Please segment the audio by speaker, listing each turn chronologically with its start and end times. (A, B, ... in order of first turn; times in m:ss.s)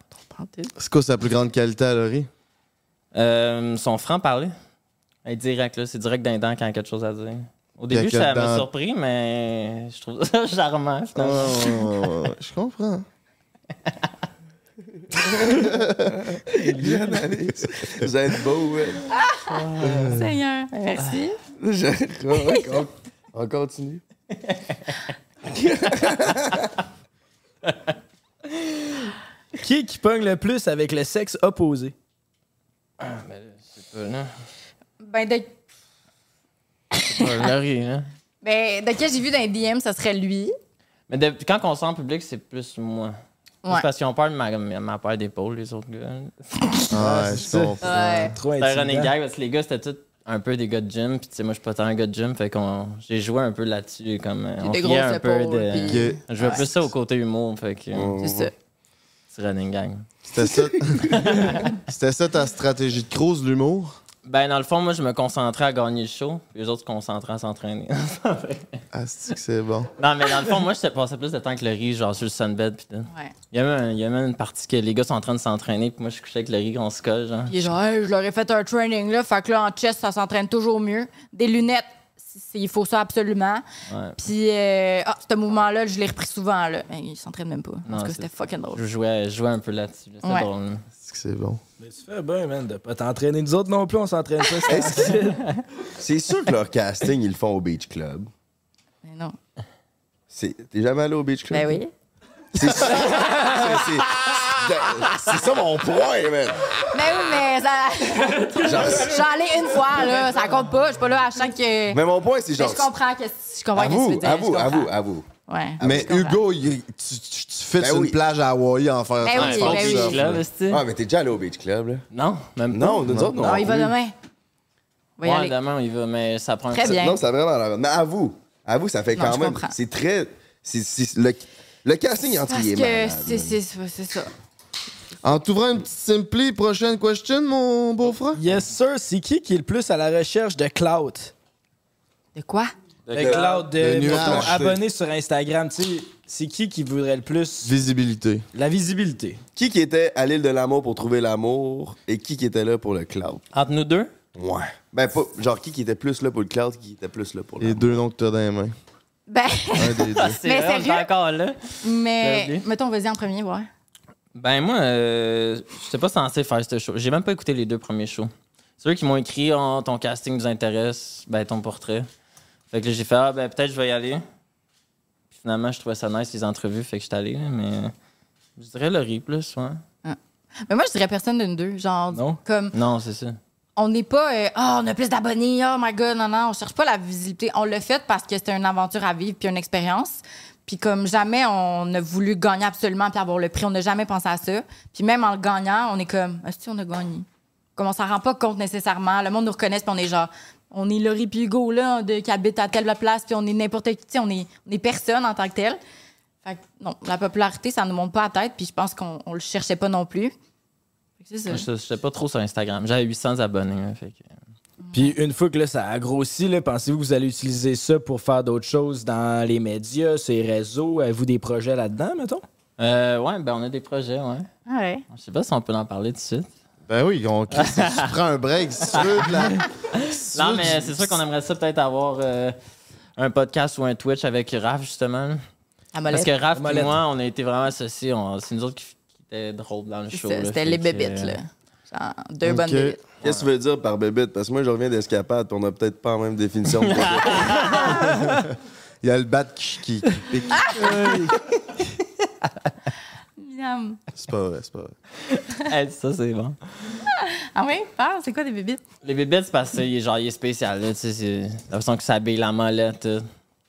0:00.2-0:00.7 A
0:00.8-0:02.3 B
0:03.1-0:04.5 C
0:05.2-0:12.2 C
0:07.9-0:08.7 B
0:11.1-0:13.0 B
0:15.1-0:15.6 D
0:15.5-0:16.2 B
0:16.2-0:19.1 D
0:16.5-0:17.0 E
0:19.2-0:19.4 A
0:19.5-0:20.0 C
0:19.8-0:20.1 D
0:19.8-0:20.2 B
0:20.1-0:21.4 A
0:21.6-0:24.0 D
0:24.5-0:24.9 C
0:25.4-0:26.7 D
0:28.6-0:28.8 C
0:29.6-0:31.9 E
0:33.0-0:34.3 C
0:35.0-0:35.5 A
0:36.9-0:37.5 A
0:37.1-0:38.1 C
0:38.4-0:40.5 A
0:41.1-0:43.1 C
0:43.6-0:46.5 C
0:46.9-0:48.4 B
0:46.9-0:49.1 E
0:47.8-0:48.3 A
0:48.6-0:58.2 C
0:54.6-0:56.6 A
0:55.8-0:56.2 B
0:57.9-0:58.5 D
0:58.2-0:58.5 A
0:59.3-1:00.0 C
1:00.3-1:03.9 B
1:01.1-1:01.6 C
1:04.2-1:08.8 C
1:08.9-1:09.9 B
1:10.0-1:17.7 C
1:17.5-1:23.6 A
1:23.9-1:24.2 C
1:24.2-1:28.8 A
1:27.9-1:30.8 C
1:30.2-1:30.5 A
1:31.0-1:31.6 B
1:31.8-1:35.4 E
1:34.7-1:35.2 D
1:36.0-1:38.3 D
1:39.0-1:39.3 A
1:40.3-1:41.8 D
1:41.5-1:41.9 A
1:42.5-1:46.8 D
1:46.9-1:52.0 A
1:48.6-1:49.2 D
1:51.9-1:52.9 D
1:52.6-1:54.9 A
1:53.7-1:55.3 D
1:55.5-1:56.4 A
1:55.8-1:56.1 D
1:55.8-2:00.4 B
1:57.8-1:58.2 D
1:59.2-2:00.2 A
1:59.3-2:00.8 C
2:00.7-2:02.0 D
2:02.1-2:03.3 C
2:02.7-2:03.9 D
2:03.4-2:04.1 A
2:05.2-2:05.5 A
2:05.2-2:07.0 C
2:06.7-2:07.2 A
2:06.8-2:13.6 D
2:09.1-2:09.7 A
2:12.4-2:14.3 A
2:15.2-2:18.4 B
2:18.3-2:21.3 E
2:22.4-2:22.7 A
2:23.1-2:24.8 D
2:23.1-2:27.7 E
2:23.8-2:24.8 B
2:27.6-2:28.4 B
2:28.5-2:29.4 E
2:29.6-2:33.4 D
2:33.5-2:34.1 C
2:34.4-2:37.9 D
2:37.6-2:38.7 B
2:39.3-2:41.1 A
2:39.8-2:40.4 B
2:40.2-2:42.6 C
2:41.8-2:43.7 A
2:44.3-2:52.1 C
2:52.7-2:54.2 C
2:55.3-2:57.9 C
2:58.6-2:59.8 C
3:00.0-3:02.7 A
3:02.1-3:02.4 E
3:02.7-3:03.4 C
3:03.8-3:25.8 A
3:26.4-3:30.3 A
3:31.2-3:31.6 A
3:31.5-3:34.3 C
3:34.8-3:35.2 A
3:34.9-3:42.4 E
3:42.8-3:44.5 C
3:44.7-3:45.0 A
3:45.1-3:46.5 C
3:46.9-3:51.2 B
3:47.5-3:48.1 C
3:48.9-3:52.6 C
3:53.2-3:55.4 C
3:55.9-3:56.3 A
3:56.1-4:01.4 C
3:56.5-3:57.0 E
4:00.1-4:03.0 A
4:02.4-4:03.0 B
4:03.2-4:08.0 D
4:06.9-4:08.0 C
4:09.0-4:11.0 B
4:10.5-4:11.2 A
4:10.8-4:11.3 E
4:13.4-4:14.0 A
4:14.1-4:14.9 B
4:15.5-4:16.6 C
4:17.0-4:18.8 A
4:19.0-4:23.2 C